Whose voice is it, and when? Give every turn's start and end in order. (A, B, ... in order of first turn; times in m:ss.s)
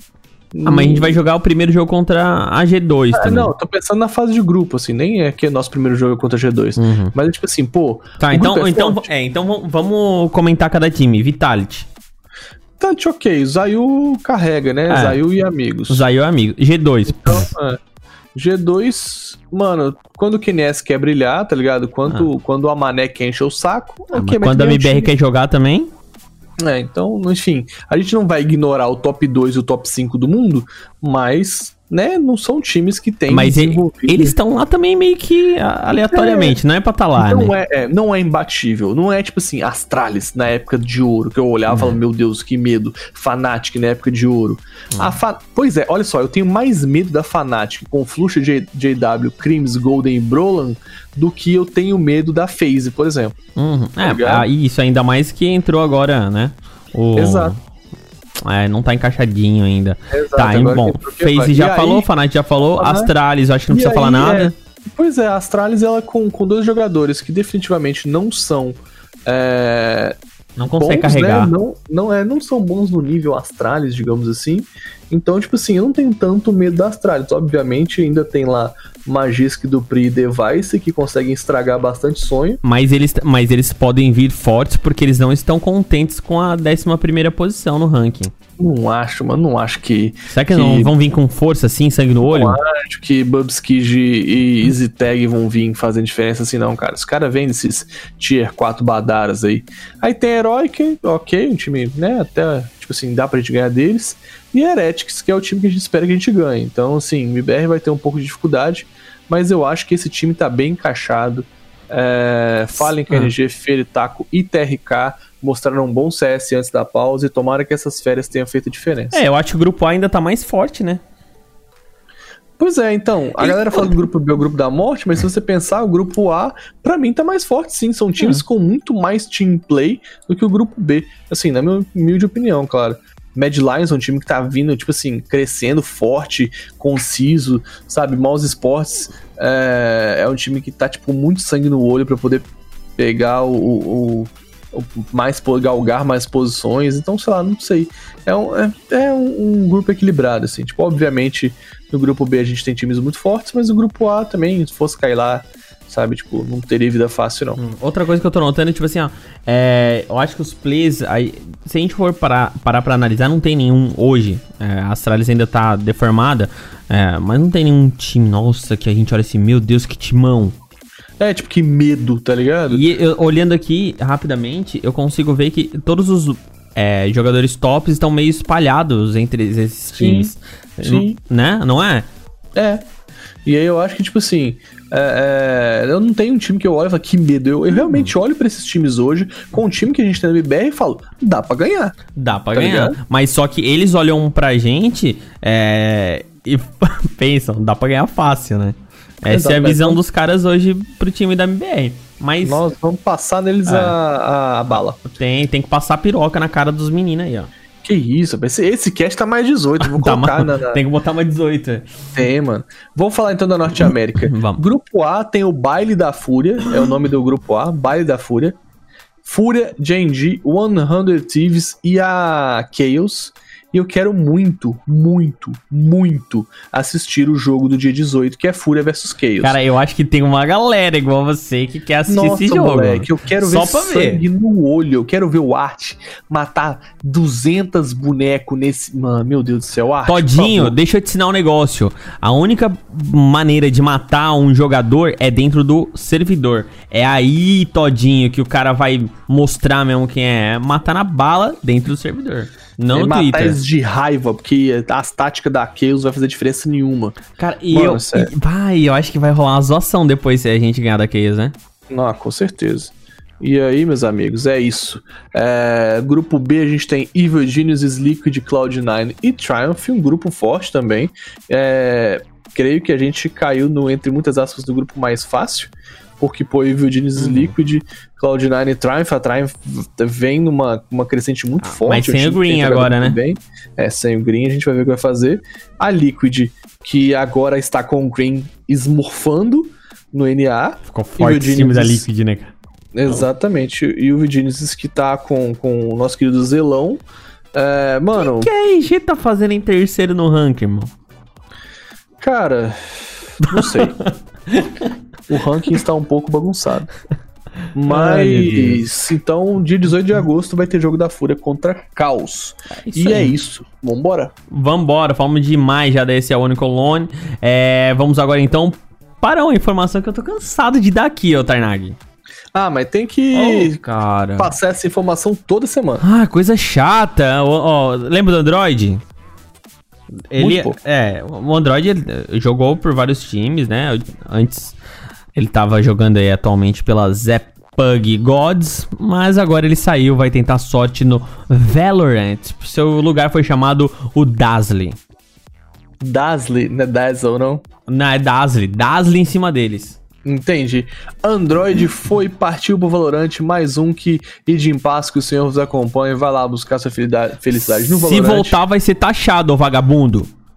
0:00.5-0:01.2 A
0:00.6-0:03.5 B
0:03.1-0:09.1 A
0:06.8-0:07.1 B
0:08.2-0:11.9 B
0:12.8-0:16.0 A
0:14.9-0:15.2 B
0:15.9-0:17.5 B
0:17.2-0:17.8 A
0:18.3-0:25.1 A
0:24.1-0:25.9 B
0:26.6-0:34.4 A
0:33.3-0:37.5 B
0:36.1-0:36.6 A
0:37.2-0:53.4 A
0:41.7-0:42.0 B
0:53.6-0:57.6 B
0:54.0-0:54.5 A
0:57.2-0:57.5 A
0:58.4-1:04.5 B
1:00.1-1:02.1 A
1:02.8-1:03.1 A
1:03.7-1:10.2 A
1:10.6-1:11.5 B
1:10.8-1:22.6 A
1:22.6-1:28.3 B
1:28.6-1:30.9 A
1:30.3-1:32.6 B
1:32.3-1:59.2 A
1:59.1-2:01.0 B
2:02.6-2:22.4 A
2:03.4-2:04.0 B
2:23.0-2:37.6 A
2:37.6-2:50.6 B
2:51.2-2:52.9 A
2:52.7-3:02.0 B
2:59.9-3:01.2 A
3:02.5-3:02.8 A
3:03.4-3:12.0 A
3:07.8-3:08.1 B
3:12.1-3:22.6 B
3:12.5-3:13.0 A
3:19.3-3:20.0 A
3:22.4-3:25.0 A
3:23.6-3:23.9 B
3:25.0-3:27.5 B
3:27.8-3:30.8 A
3:29.8-3:31.9 B
3:32.2-3:38.6 A
3:34.2-3:34.6 B
3:39.2-3:49.6 A
3:49.4-3:54.2 B
3:52.1-4:00.8 A
4:00.0-4:13.6 B
4:12.9-4:17.2 A
4:17.4-4:21.5 B
4:17.7-4:18.3 A
4:21.9-4:52.1 A
4:37.2-4:37.5 B
4:41.6-4:43.2 B
4:50.8-4:52.5 B
4:52.9-4:57.0 A
4:57.5-4:58.5 A
4:58.2-5:00.9 B
5:02.2-5:04.0 A
5:03.4-5:04.9 B
5:05.3-5:06.9 A
5:07.7-5:14.3 A
5:07.9-5:08.8 B
5:12.7-5:13.3 B
5:14.5-5:22.0 B
5:22.5-5:23.8 A
5:23.3-5:24.5 B
5:24.4-5:26.0 A
5:26.0-5:29.0 B
5:30.2-5:34.8 B
5:30.4-5:30.8 A
5:35.3-5:45.0 B
5:46.0-5:47.6 A
5:47.9-5:50.0 B
5:50.2-5:58.6 A
5:57.5-6:00.3 B